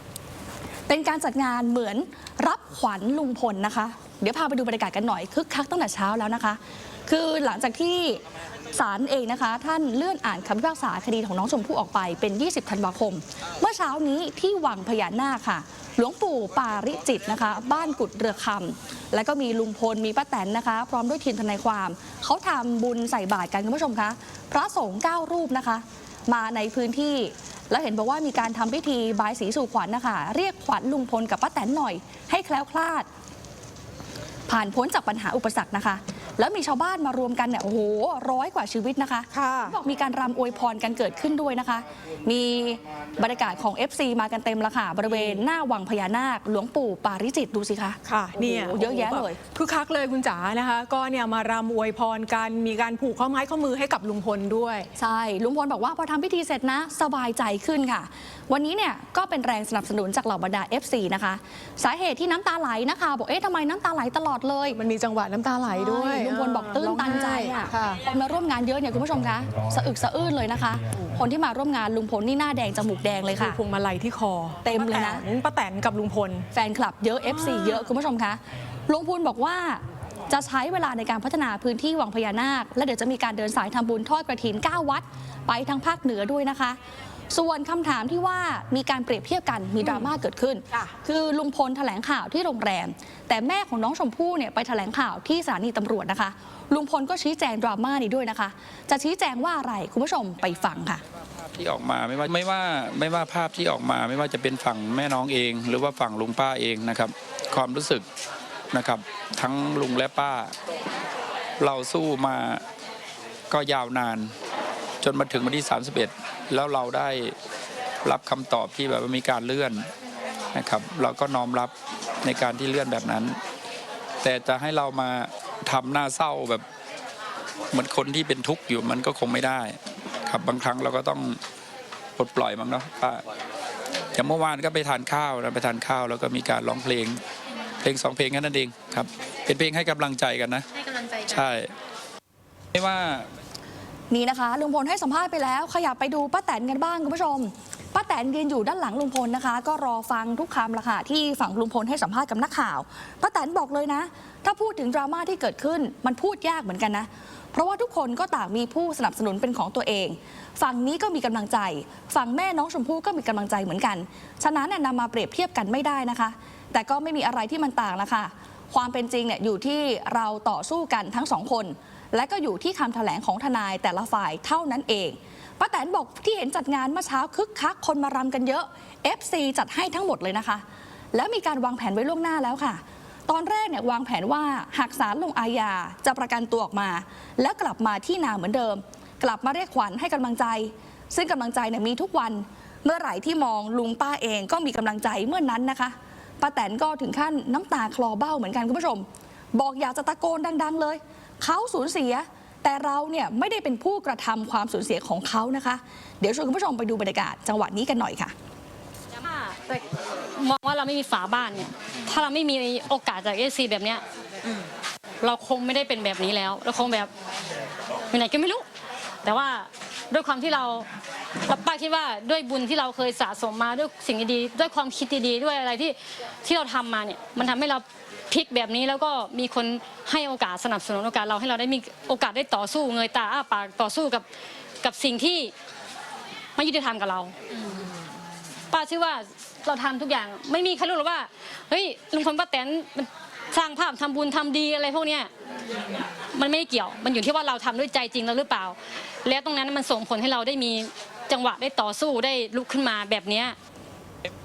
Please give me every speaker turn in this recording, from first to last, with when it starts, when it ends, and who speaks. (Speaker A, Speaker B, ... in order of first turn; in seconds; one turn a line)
Speaker A: 0.9-8.2
Speaker A: 8.7-33.1
Speaker A: 34.5-49.4
Speaker B: 39.3-39.8
Speaker B: 45.1-45.4
Speaker B: 48.0-54.9
Speaker A: 55.0-64.8
Speaker B: 64.8-68.0
Speaker A: 65.7-73.6
Speaker B: 73.4-76.5
Speaker A: 74.6-75.2
Speaker A: 76.5-86.8
Speaker A: 87.3-101.0
Speaker C: 101.5-108.0
Speaker C: 108.7-110.5
Speaker C: 111.6-112.6
Speaker C: 113.5-114.3
Speaker C: 115.0-117.3
Speaker C: 118.0-119.9
Speaker C: 120.5-123.4
Speaker C: 124.2-126.6
Speaker C: 127.7-131.4
Speaker C: 132.2-133.2
Speaker C: 134.1-137.2
Speaker C: 137.8-141.7
Speaker C: 142.7-143.3
Speaker A: 144.1-180.6
Speaker A: 181.1-199.0
Speaker A: 199.6-208.3
Speaker D: 209.2-209.8
Speaker D: 210.3-214.0
Speaker D: 215.2-217.1
Speaker D: 218.1-218.6
Speaker D: 219.2-220.9
Speaker D: 221.5-234.2
Speaker D: 234.8-235.5
Speaker D: 236.6-237.8
Speaker D: 238.7-245.3
Speaker D: 246.3-253.6